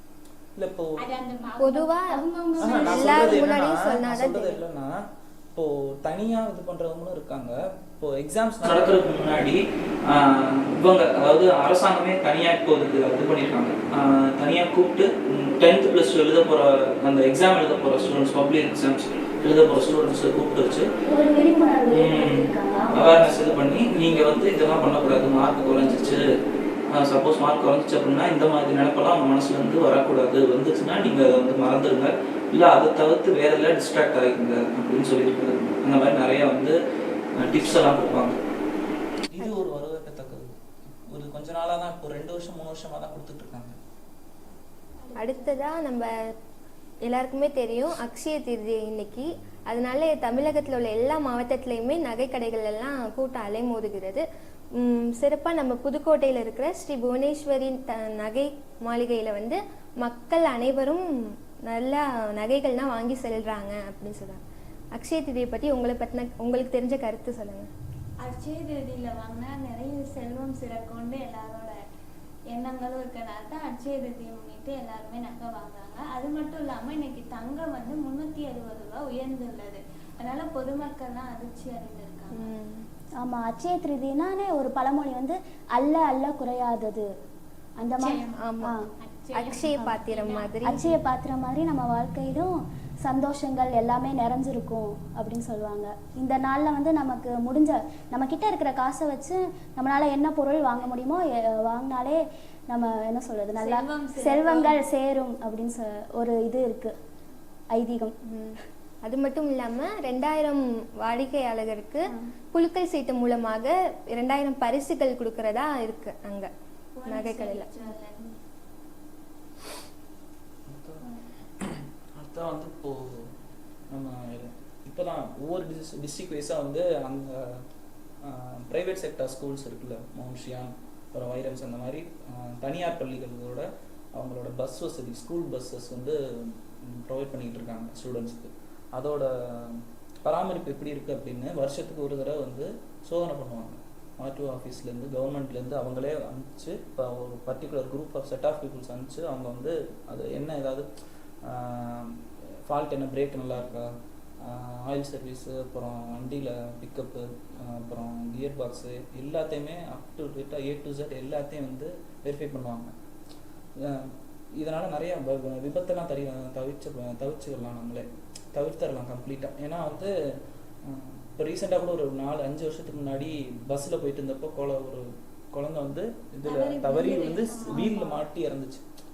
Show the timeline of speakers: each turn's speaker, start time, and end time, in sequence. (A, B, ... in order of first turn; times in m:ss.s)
0:00.6-0:01.0 A
0:01.0-0:03.5 B
0:01.6-0:04.6 C
0:02.6-0:20.9 A
0:21.1-0:23.2 D
0:21.9-0:26.2 A
0:26.9-0:36.8 A
0:37.4-0:38.4 A
0:39.3-0:43.8 A
0:39.4-0:39.6 C
0:45.0-0:45.6 E
0:45.2-0:46.1 C
0:47.0-0:54.2 C
0:54.8-1:01.1 C
1:01.7-1:04.4 C
1:05.0-1:07.7 C
1:08.2-1:11.8 E
1:12.5-1:22.5 E
1:22.3-1:22.9 C
1:23.2-1:27.1 D
1:27.8-1:28.8 D
1:28.0-1:28.4 B
1:28.4-1:28.8 C
1:29.0-1:30.5 B
1:29.3-1:30.9 C
1:30.6-1:47.0 D
1:43.6-1:44.8 E
1:47.7-1:48.2 D
1:48.3-1:56.5 C
1:57.0-1:58.3 E
1:57.1-1:57.7 C
2:00.7-2:03.3 A
2:03.9-2:07.6 A
2:08.2-2:30.9 A
2:31.4-2:42.9 A
2:43.8-2:50.1 A
2:50.8-2:58.8 A
2:56.4-2:58.1 E